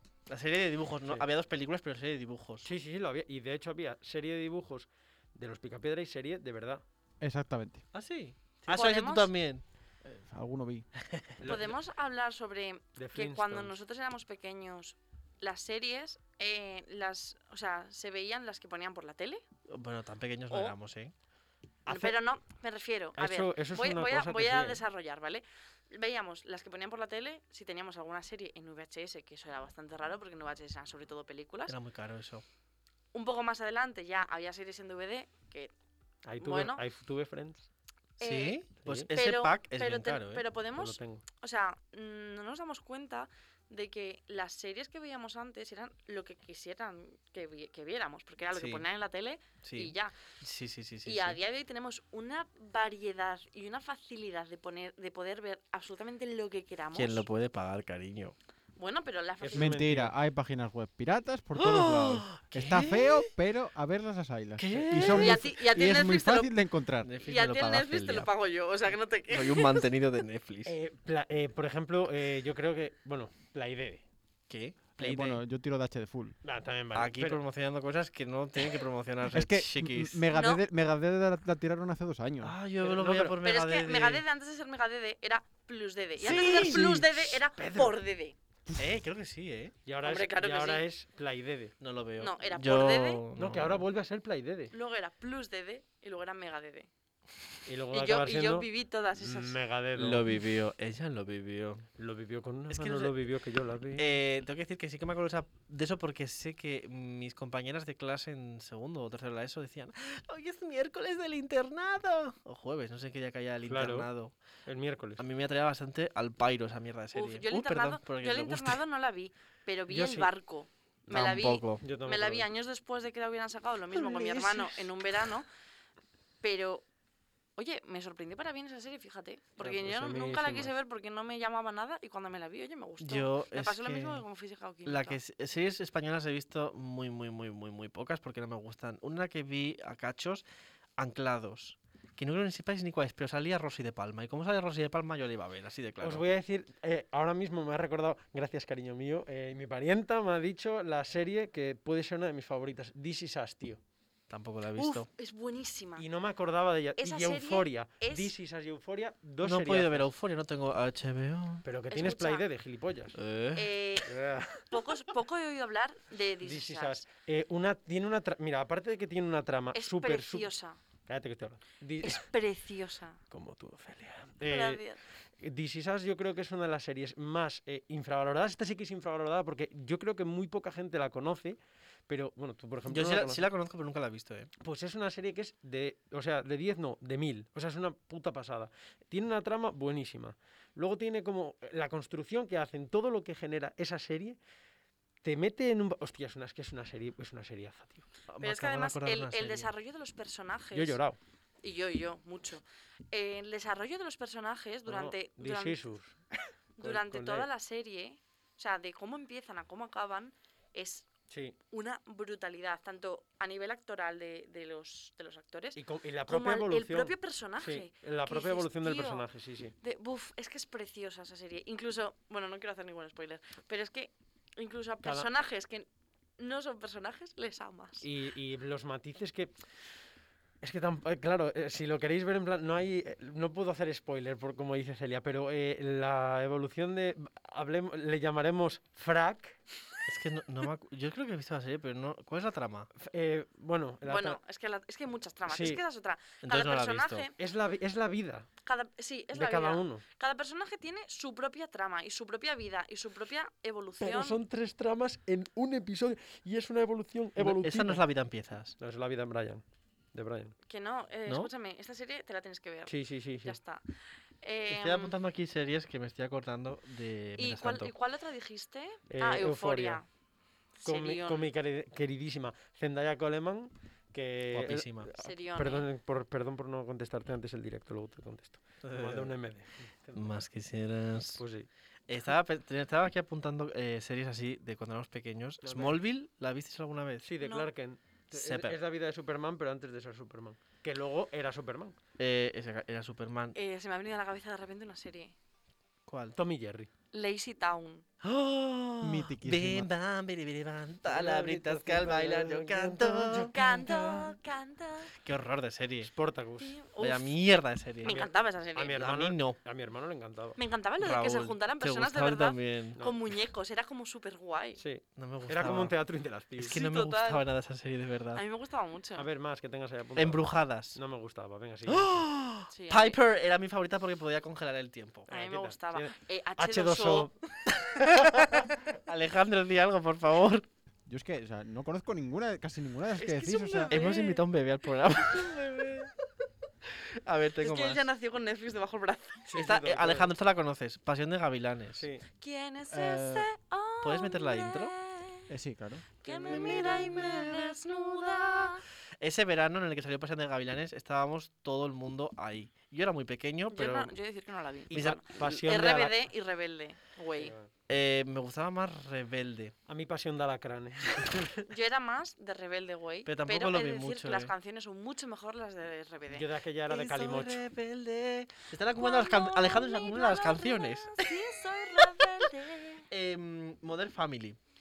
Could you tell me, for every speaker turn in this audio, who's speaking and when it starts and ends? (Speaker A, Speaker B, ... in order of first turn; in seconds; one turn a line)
Speaker A: 0.3-2.7
Speaker B: 2.6-6.8
Speaker C: 7.2-7.8
Speaker A: 7.9-9.6
Speaker D: 8.7-9.3
Speaker C: 10.0-10.9
Speaker A: 11.0-11.3
Speaker B: 11.4-11.8
Speaker D: 11.4-19.4
Speaker B: 13.0-13.7
Speaker A: 19.7-21.1
Speaker D: 20.5-20.7
Speaker B: 21.9-22.2
Speaker D: 21.9-31.7
Speaker B: 23.1-24.8
Speaker A: 31.7-32.4
Speaker D: 33.1-35.7
Speaker B: 36.2-37.7
Speaker D: 36.4-36.8
Speaker D: 38.2-50.1
Speaker A: 38.2-40.4
Speaker B: 38.8-39.1
Speaker B: 40.8-41.2
Speaker A: 48.5-48.8
Speaker A: 49.6-51.4
Speaker D: 51.0-57.2
Speaker A: 56.9-58.3
Speaker D: 58.8-59.8
Speaker B: 59.4-60.1
Speaker C: 59.5-67.1
Speaker A: 61.5-63.3
Speaker A: 64.6-65.4
Speaker D: 65.1-66.5
Speaker A: 67.0-68.3
Speaker D: 67.2-69.9
Speaker A: 69.3-70.8
Speaker B: 70.7-74.0
Speaker A: 74.5-75.4
Speaker C: 75.0-76.4
Speaker B: 76.4-77.4
Speaker A: 76.9-80.2
Speaker C: 79.3-82.5
Speaker D: 80.3-80.6
Speaker A: 82.4-84.2
Speaker B: 82.8-83.4
Speaker D: 83.4-88.3
Speaker A: 86.2-87.0
Speaker B: 86.3-88.0
Speaker A: 88.8-89.8
Speaker B: 89.8-91.7
Speaker D: 90.0-90.8
Speaker A: 91.8-93.8
Speaker D: 92.2-93.2
Speaker B: 93.3-94.7
Speaker D: 94.7-96.9
Speaker B: 97.7-100.2
Speaker D: 97.9-99.6
Speaker A: 100.0-101.9
Speaker B: 102.0-104.1
Speaker A: 102.7-103.1
Speaker A: 104.0-114.3
Speaker B: 113.7-114.1
Speaker B: 114.7-115.2
Speaker A: 115.2-118.8
Speaker D: 117.1-125.5
Speaker B: 119.9-120.3
Speaker A: 121.1-121.8
Speaker B: 121.8-122.5
Speaker A: 124.3-124.7
Speaker D: 126.4-126.8
Speaker D: 127.6-135.2
Speaker B: 129.6-130.7
Speaker A: 133.0-134.2
Speaker A: 134.8-140.4
Speaker A: 141.0-146.2
Speaker B: 146.0-153.8
Speaker A: 154.3-155.1
Speaker D: 154.8-156.1
Speaker B: 156.0-160.1
Speaker D: 157.0-158.3
Speaker A: 159.4-161.6
Speaker B: 161.6-163.2
Speaker D: 161.9-162.4
Speaker A: 163.1-163.7
Speaker D: 163.6-164.1
Speaker B: 164.1-164.8
Speaker D: 164.7-167.0
Speaker B: 166.4-170.5
Speaker D: 169.7-170.8
Speaker B: 171.1-172.2
Speaker D: 172.0-173.2
Speaker B: 173.3-174.8
Speaker D: 174.4-175.0
Speaker B: 175.4-183.4
Speaker A: 182.9-184.5
Speaker B: 184.6-194.4
Speaker B: 195.2-198.1
Speaker A: 198.3-199.7
Speaker D: 198.4-201.0
Speaker B: 200.7-201.2
Speaker D: 201.6-205.8
Speaker B: 204.9-206.2
Speaker D: 206.8-211.1
Speaker B: 206.8-207.5
Speaker B: 211.3-211.6
Speaker D: 211.7-219.3
Speaker B: 215.8-219.7
Speaker D: 219.8-225.9
Speaker D: 226.4-228.1
Speaker B: 228.0-229.5
Speaker B: 230.6-239.6
Speaker A: 240.1-242.9
Speaker B: 242.9-244.4
Speaker D: 244.0-247.3
Speaker B: 245.5-245.8
Speaker A: 246.4-247.3
Speaker B: 247.4-248.5
Speaker D: 248.6-254.4
Speaker B: 249.3-250.0
Speaker B: 254.0-258.0
Speaker A: 257.4-258.8
Speaker B: 258.8-259.6
Speaker B: 260.1-260.5
Speaker D: 260.7-263.8
Speaker B: 262.9-263.6
Speaker D: 264.4-265.1
Speaker A: 264.7-267.9
Speaker D: 267.4-270.1
Speaker B: 269.1-270.0
Speaker D: 270.8-271.5
Speaker B: 270.9-280.4
Speaker A: 274.5-275.1
Speaker D: 275.2-275.9
Speaker A: 278.8-279.3
Speaker A: 280.1-281.4
Speaker B: 281.4-281.7
Speaker A: 282.1-287.3
Speaker B: 285.6-286.0
Speaker B: 287.2-291.9
Speaker D: 287.4-287.7
Speaker A: 288.3-288.8
Speaker A: 292.2-293.6
Speaker D: 293.5-295.3
Speaker A: 296.1-296.4
Speaker B: 296.4-296.9
Speaker D: 297.1-298.0
Speaker A: 298.2-304.3
Speaker C: 299.0-299.9
Speaker B: 301.1-303.5
Speaker D: 303.5-305.1
Speaker A: 305.1-306.1
Speaker B: 306.1-306.8
Speaker D: 306.6-307.3
Speaker A: 307.0-308.2
Speaker D: 308.0-309.0
Speaker B: 308.0-310.6
Speaker A: 309.0-309.6
Speaker D: 310.6-314.8
Speaker A: 311.0-313.0
Speaker B: 314.8-316.8
Speaker A: 315.1-315.9
Speaker A: 316.6-318.4
Speaker D: 316.6-317.4
Speaker D: 318.3-319.3
Speaker B: 319.2-320.4
Speaker A: 320.1-321.0
Speaker B: 320.9-322.2
Speaker A: 321.9-325.3
Speaker D: 322.7-323.2
Speaker D: 325.3-327.3
Speaker B: 325.3-327.3
Speaker A: 327.7-330.6
Speaker C: 331.1-334.0
Speaker D: 333.2-334.4
Speaker A: 333.9-336.1
Speaker A: 337.2-338.1
Speaker D: 337.6-339.5
Speaker B: 339.5-340.3
Speaker A: 339.6-342.1
Speaker B: 342.0-342.2
Speaker D: 342.4-345.5
Speaker C: 342.9-343.5
Speaker A: 344.0-344.9
Speaker C: 345.5-346.1
Speaker D: 346.2-348.8
Speaker B: 346.3-347.1
Speaker A: 346.4-354.1
Speaker D: 353.7-357.5
Speaker B: 354.9-356.2
Speaker A: 354.9-355.5
Speaker B: 357.4-357.7
Speaker A: 357.9-359.7
Speaker B: 359.9-361.5
Speaker D: 361.7-366.5
Speaker A: 363.2-364.5
Speaker B: 366.3-367.6
Speaker A: 366.9-371.3
Speaker D: 368.9-373.1
Speaker A: 373.1-374.6